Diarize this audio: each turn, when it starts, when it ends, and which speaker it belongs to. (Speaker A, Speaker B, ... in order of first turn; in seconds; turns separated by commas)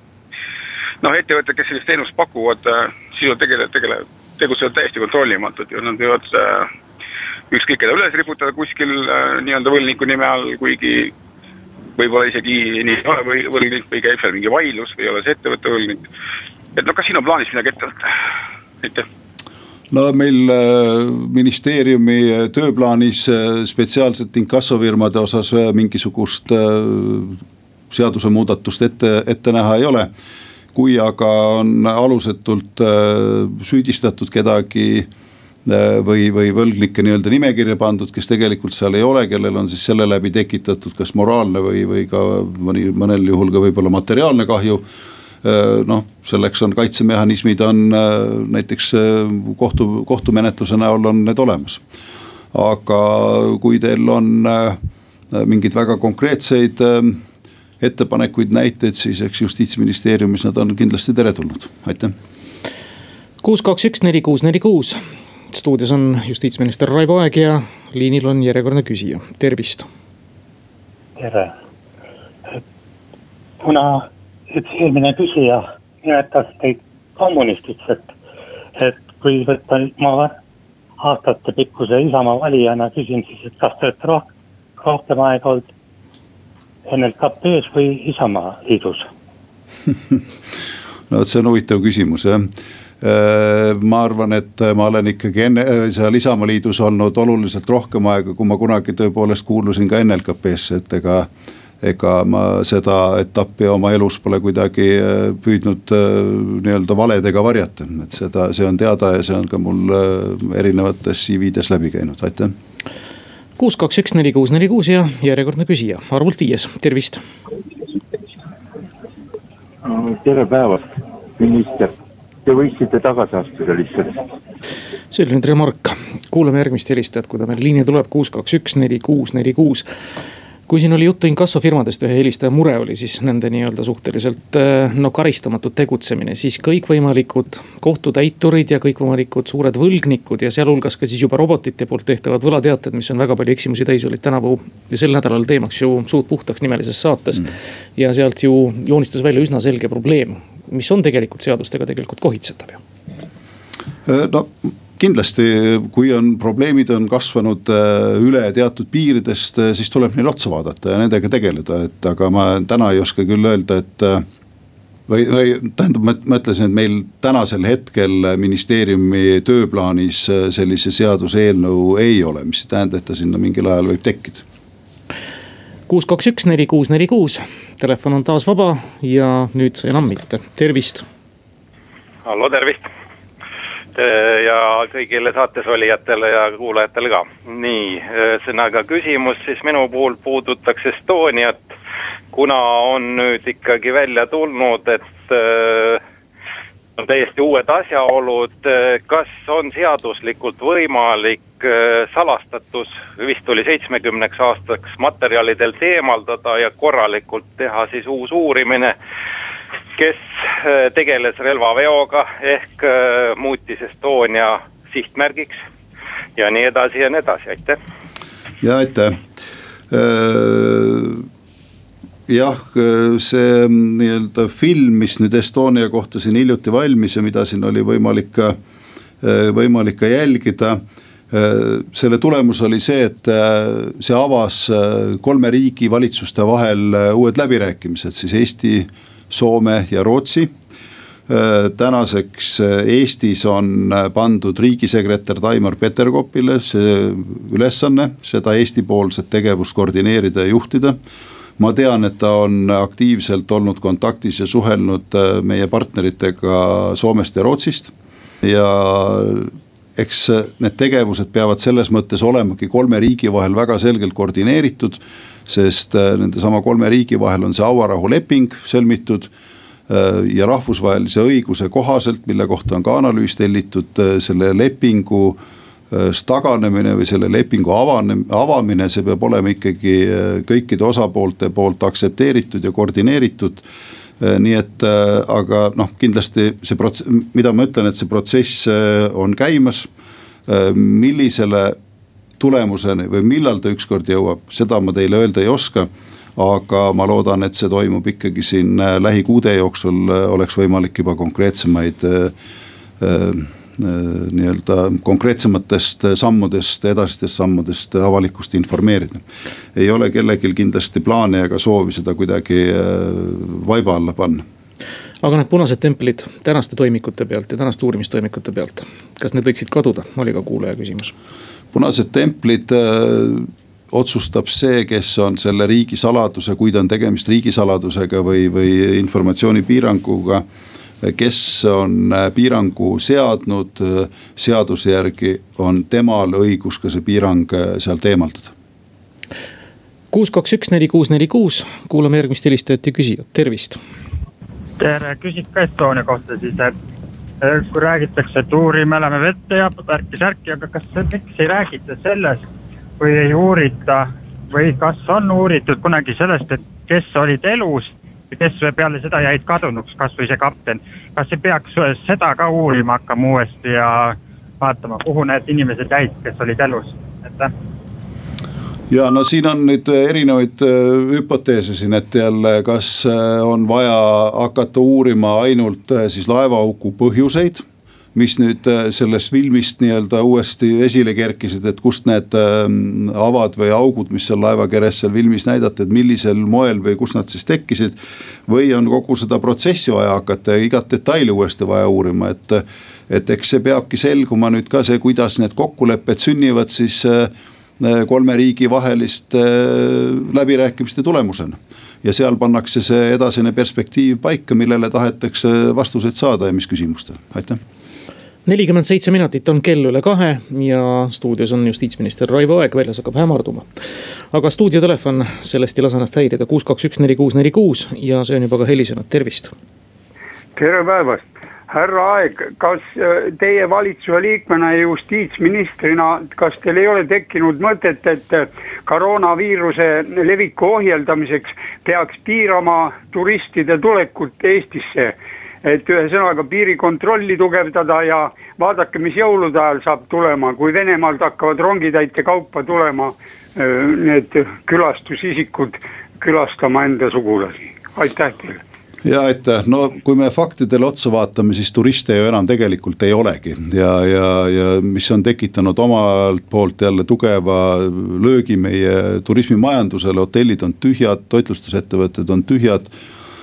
Speaker A: 1.0-6.7, Speaker A: 7.5-11.1, Speaker A: 12.0-16.1, Speaker A: 16.7-18.1, Speaker B: 19.9-27.4, Speaker B: 27.9-30.1, Speaker B: 30.7-35.1, Speaker B: 35.6-44.8, Speaker B: 45.4-51.8, Speaker B: 52.5-54.8, Speaker B: 55.3-57.2, Speaker B: 57.8-62.1, Speaker C: 63.4-65.0, Speaker C: 65.5-69.9, Speaker D: 71.2-71.5, Speaker D: 73.6-78.1, Speaker D: 78.8-80.3, Speaker D: 81.0-84.3, Speaker D: 84.8-85.7, Speaker D: 86.8-89.1, Speaker B: 89.9-90.2, Speaker B: 91.1-101.3, Speaker B: 101.8-112.5, Speaker C: 113.6-117.2, Speaker E: 119.8-120.9, Speaker E: 121.4-121.9, Speaker E: 122.4-124.2, Speaker C: 125.1-129.9, Speaker C: 130.7-152.8, Speaker B: 154.1-164.2, Speaker B: 165.1-174.4, Speaker C: 175.9-181.0, Speaker F: 182.2-182.9, Speaker F: 183.9-191.6, Speaker F: 192.3-196.0, Speaker F: 197.0-208.9, Speaker F: 210.0-215.6, Speaker F: 216.4-217.8, Speaker B: 218.6-219.2, Speaker B: 219.9-221.2, Speaker B: 222.3-228.6, Speaker B: 229.2-240.5, Speaker B: 241.3-251.0, Speaker B: 251.6-269.3, Speaker B: 269.9-275.4, Speaker B: 275.9-283.6, Speaker B: 284.2-289.9, Speaker B: 290.5-291.8, Speaker B: 292.4-302.3, Speaker B: 303.0-309.2, Speaker B: 309.7-314.4, Speaker C: 315.2-321.1, Speaker B: 321.7-330.4, Speaker B: 331.0-338.5, Speaker C: 340.1-343.8, Speaker G: 344.8-346.7, Speaker G: 347.4-352.4, Speaker G: 353.0-367.5, Speaker B: 368.9-407.6, Speaker C: 408.4-413.7, Speaker C: 414.3-419.5, Speaker H: 420.6-448.6, Speaker B: 449.0-462.9